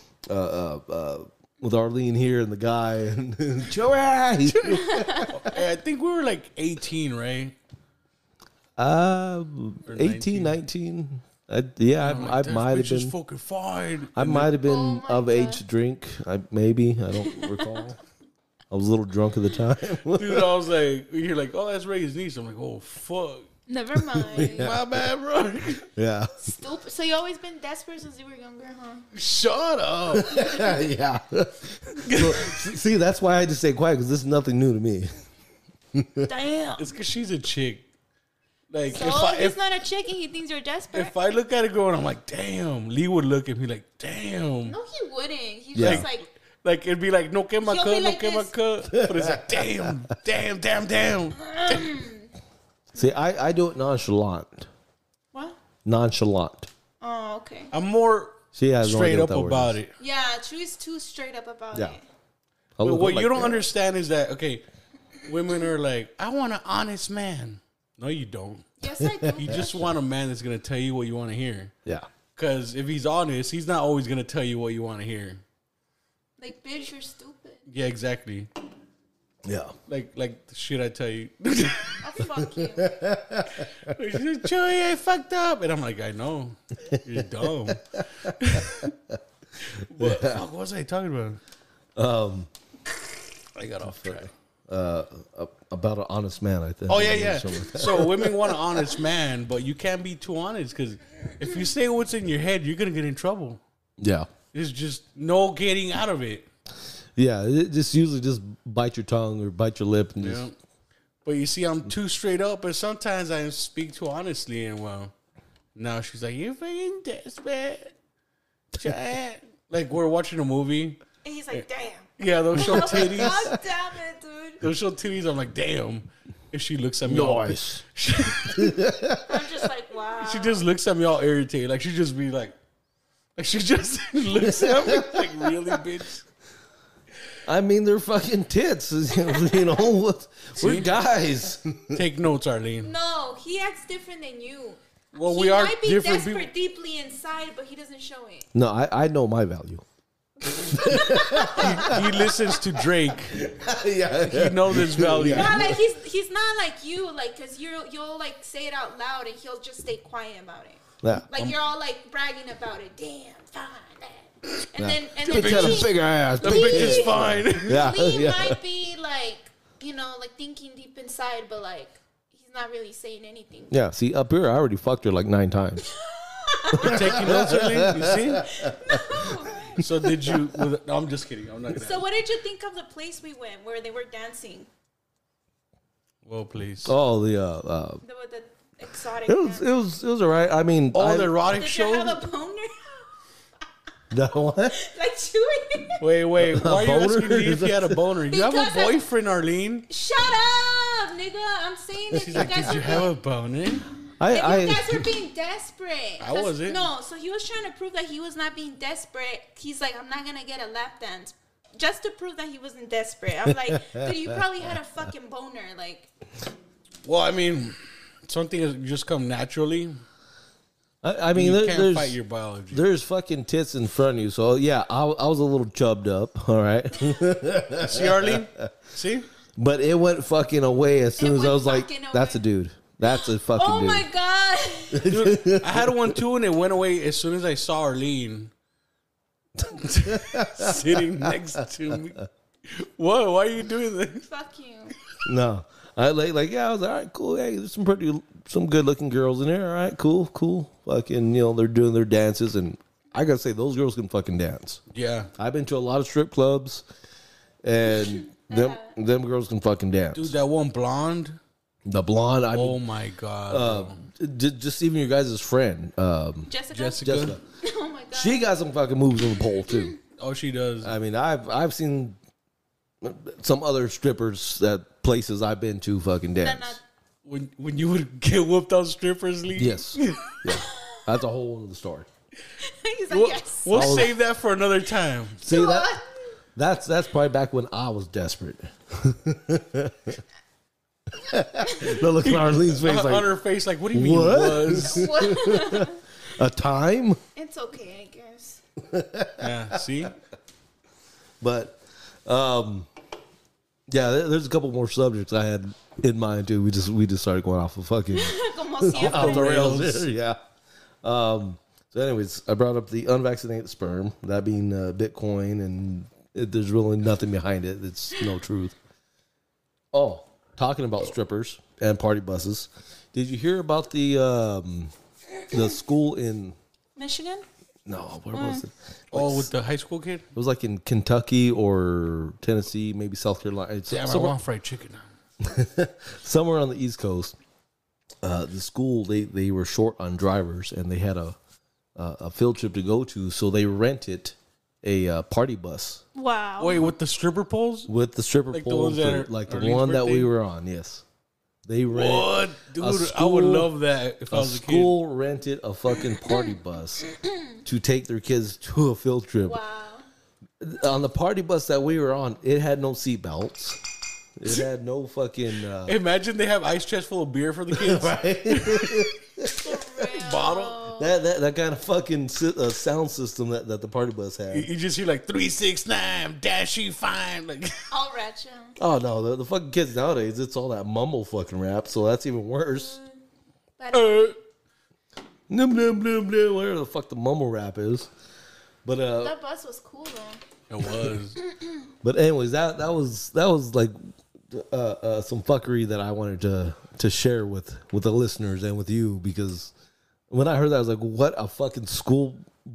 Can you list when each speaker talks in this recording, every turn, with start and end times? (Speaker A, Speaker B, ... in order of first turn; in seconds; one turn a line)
Speaker A: 0.3-5.6
Speaker B: 4.8-5.3
Speaker C: 5.3-7.5
Speaker A: 8.8-13.1
Speaker C: 9.8-10.6
Speaker C: 12.0-14.5
Speaker A: 14.1-18.0
Speaker B: 14.6-15.6
Speaker B: 17.3-17.8
Speaker A: 18.7-20.5
Speaker C: 20.0-23.5
Speaker B: 23.7-24.7
Speaker A: 24.1-24.8
Speaker C: 24.4-25.9
Speaker A: 25.9-26.5
Speaker B: 26.4-29.1
Speaker C: 29.1-30.3
Speaker A: 30.1-35.1
Speaker C: 32.0-32.5
Speaker A: 35.9-36.3
Speaker B: 36.2-36.8
Speaker C: 36.8-37.8
Speaker C: 38.7-39.5
Speaker B: 38.9-41.1
Speaker C: 40.9-44.7
Speaker B: 44.6-46.3
Speaker A: 45.7-46.0
Speaker C: 45.8-51.9
Speaker B: 47.6-48.5
Speaker A: 48.9-49.7
Speaker B: 51.4-52.3
Speaker A: 52.9-54.7
Speaker B: 55.3-55.6
Speaker A: 55.8-56.7
Speaker B: 57.0-57.7
Speaker C: 57.7-59.9
Speaker A: 58.5-59.8
Speaker B: 60.0-62.0
Speaker A: 62.8-63.7
Speaker C: 62.8-64.6
Speaker C: 65.3-68.6
Speaker B: 68.8-69.9
Speaker A: 69.0-69.6
Speaker C: 69.4-71.7
Speaker C: 72.3-75.4
Speaker B: 76.4-77.6
Speaker C: 77.7-78.5
Speaker A: 79.4-79.7
Speaker C: 79.9-81.9
Speaker B: 82.0-82.9
Speaker A: 82.4-83.9
Speaker C: 83.8-88.9
Speaker A: 86.9-89.2
Speaker C: 89.7-91.4
Speaker A: 89.9-90.4
Speaker A: 92.0-92.5
Speaker C: 93.5-94.3
Speaker A: 93.8-98.6
Speaker C: 96.9-103.6
Speaker A: 104.0-104.3
Speaker C: 104.5-106.5
Speaker A: 107.2-110.5
Speaker C: 110.2-110.5
Speaker C: 111.2-115.1
Speaker C: 115.8-117.9
Speaker C: 118.7-121.0
Speaker B: 121.2-124.6
Speaker C: 122.2-123.5
Speaker A: 122.6-123.5
Speaker C: 124.6-128.6
Speaker A: 127.0-127.8
Speaker A: 128.4-129.4
Speaker B: 129.2-130.6
Speaker C: 130.2-132.5
Speaker C: 133.4-136.2
Speaker A: 134.3-135.3
Speaker A: 137.4-142.0
Speaker C: 140.6-140.9
Speaker C: 141.9-142.9
Speaker B: 142.8-148.5
Speaker C: 145.1-146.5
Speaker A: 148.5-149.8
Speaker B: 150.6-152.0
Speaker A: 150.6-152.2
Speaker C: 151.6-153.4
Speaker A: 153.3-155.8
Speaker C: 154.3-155.6
Speaker B: 155.3-173.7
Speaker A: 161.0-161.5
Speaker A: 164.8-168.6
Speaker C: 165.2-167.8
Speaker A: 173.7-175.8
Speaker B: 175.8-177.1
Speaker A: 176.8-179.4
Speaker C: 176.8-178.4
Speaker B: 178.5-179.8
Speaker C: 179.8-182.0
Speaker B: 181.8-184.7
Speaker C: 186.2-186.9
Speaker A: 186.8-188.0
Speaker B: 188.0-189.7
Speaker A: 189.2-191.3
Speaker C: 190.9-192.2
Speaker B: 191.5-193.1
Speaker A: 194.1-194.8
Speaker B: 194.7-196.0
Speaker C: 196.0-199.9
Speaker A: 196.4-198.0
Speaker B: 198.3-199.1
Speaker B: 199.9-203.1
Speaker C: 202.1-203.9
Speaker A: 202.4-202.7
Speaker A: 204.2-205.1
Speaker B: 204.3-216.1
Speaker C: 206.2-206.8
Speaker A: 213.5-214.3
Speaker C: 217.0-220.0
Speaker A: 221.0-222.2
Speaker C: 221.3-222.9
Speaker A: 222.7-228.7
Speaker C: 227.8-229.3
Speaker A: 229.6-234.1
Speaker B: 231.2-232.4
Speaker B: 233.1-235.1
Speaker A: 234.9-236.1
Speaker C: 235.0-238.5
Speaker A: 239.6-242.0
Speaker C: 239.7-244.2
Speaker B: 244.2-244.9
Speaker A: 245.2-254.8
Speaker C: 254.9-255.3
Speaker A: 255.4-256.8
Speaker A: 257.6-260.3
Speaker B: 258.2-258.9
Speaker C: 260.1-261.4
Speaker A: 261.9-262.8
Speaker C: 262.5-264.1
Speaker A: 263.5-267.4
Speaker B: 266.5-268.5
Speaker C: 266.7-267.4
Speaker A: 268.1-269.9
Speaker C: 270.2-270.9
Speaker A: 270.8-272.2
Speaker A: 273.0-276.8
Speaker B: 276.4-276.8
Speaker C: 277.2-280.3
Speaker A: 279.6-282.1
Speaker B: 280.7-281.0
Speaker B: 282.6-284.0
Speaker C: 283.1-285.4
Speaker A: 283.7-284.1
Speaker A: 285.4-286.0
Speaker B: 285.5-286.1
Speaker A: 286.6-290.2
Speaker A: 291.1-293.3
Speaker B: 291.7-291.9
Speaker C: 292.2-295.1
Speaker A: 293.9-297.2
Speaker B: 294.9-296.0
Speaker B: 297.4-298.6
Speaker A: 298.8-300.1
Speaker C: 299.4-300.1
Speaker A: 301.4-302.9
Speaker A: 303.9-310.4
Speaker B: 308.1-309.5
Speaker C: 308.9-310.1
Speaker A: 311.0-318.7
Speaker A: 319.9-324.9
Speaker A: 325.5-326.6
Speaker B: 326.9-327.4
Speaker A: 327.9-329.5
Speaker B: 328.3-328.6
Speaker C: 329.1-330.3
Speaker A: 330.3-334.4
Speaker C: 333.9-335.0
Speaker A: 335.4-337.3
Speaker A: 338.2-341.4
Speaker A: 341.9-346.0
Speaker B: 346.1-346.9
Speaker C: 346.6-347.9
Speaker A: 347.9-351.0
Speaker C: 348.5-350.3
Speaker A: 351.6-353.7
Speaker C: 351.9-354.9
Speaker A: 354.3-357.1
Speaker A: 357.6-359.6
Speaker B: 359.4-360.1
Speaker A: 360.6-363.8
Speaker A: 364.4-366.0
Speaker C: 365.9-369.0
Speaker A: 367.7-370.1
Speaker B: 369.5-371.1
Speaker C: 370.1-370.8
Speaker A: 370.9-374.7
Speaker C: 374.5-377.9
Speaker B: 377.9-378.8
Speaker A: 378.8-382.9
Speaker B: 382.7-383.2
Speaker B: 383.8-384.4
Speaker C: 383.9-384.4
Speaker A: 385.5-388.1
Speaker A: 388.8-389.3
Speaker B: 389.2-390.4
Speaker C: 390.7-391.4
Speaker A: 392.0-394.0
Speaker A: 394.5-399.7
Speaker A: 400.3-402.5